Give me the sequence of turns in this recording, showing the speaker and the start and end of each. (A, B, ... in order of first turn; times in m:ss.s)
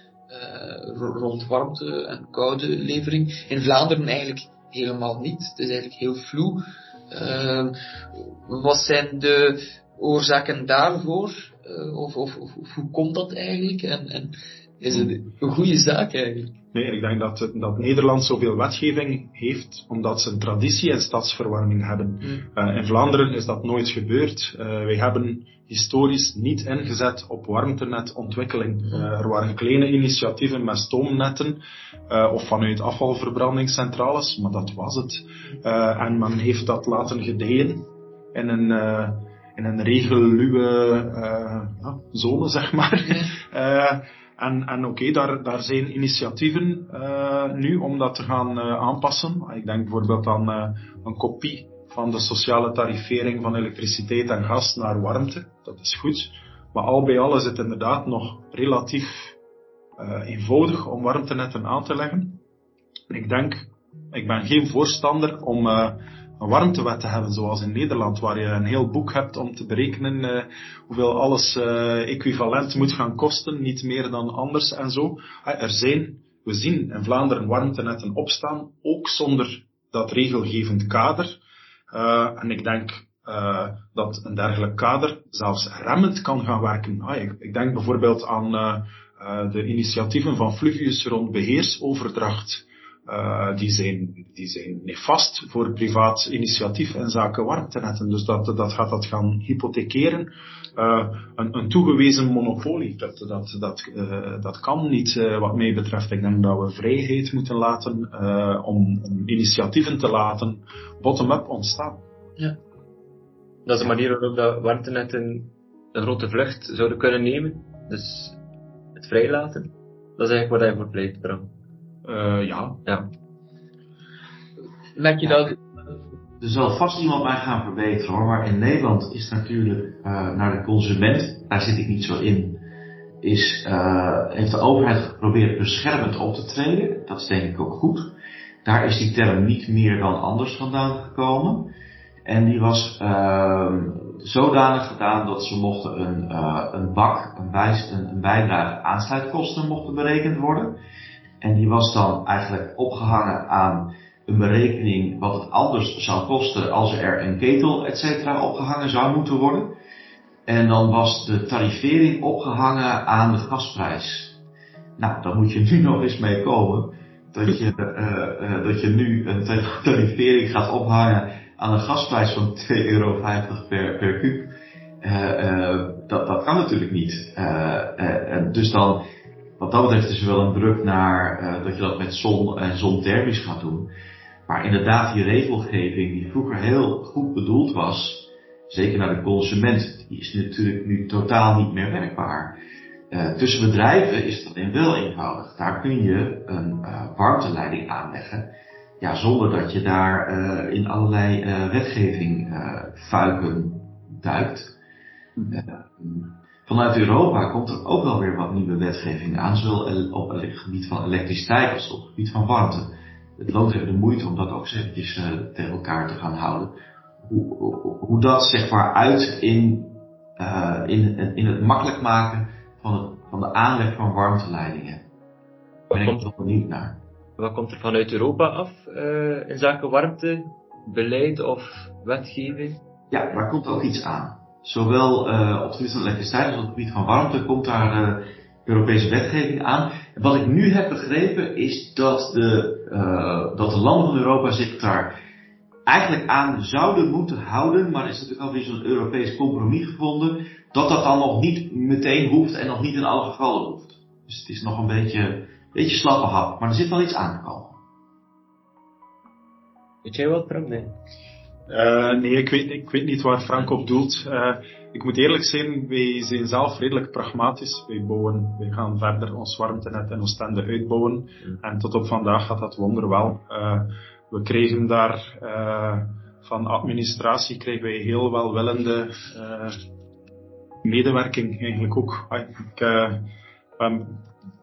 0:00.3-0:16.5 A
0:16.7-0:59.3 B
1:00.0-1:02.4 B
1:03.1-1:21.4 B
1:21.9-1:52.0 B
1:53.7-1:58.4 C
1:59.0-2:01.5 C
2:02.0-2:02.8 B
2:05.0-2:05.6 A
2:06.4-2:12.6 D
2:13.2-2:18.1 D
2:18.6-2:21.7 D
2:22.2-2:30.8 D
2:31.4-2:39.8 D
2:40.5-2:44.4 D
2:45.0-2:54.5 D
2:55.0-2:59.0 D
2:59.6-3:03.9 D
3:04.5-3:12.6 D
3:13.1-3:24.7 D
3:25.5-3:45.0 D
3:45.9-3:46.3 C
3:46.0-3:47.0 D
3:47.4-3:52.8 C
3:53.1-4:05.2 D
4:05.9-4:17.8 D
4:20.0-4:21.0 C
4:21.7-4:39.8 B
4:40.8-4:44.3 B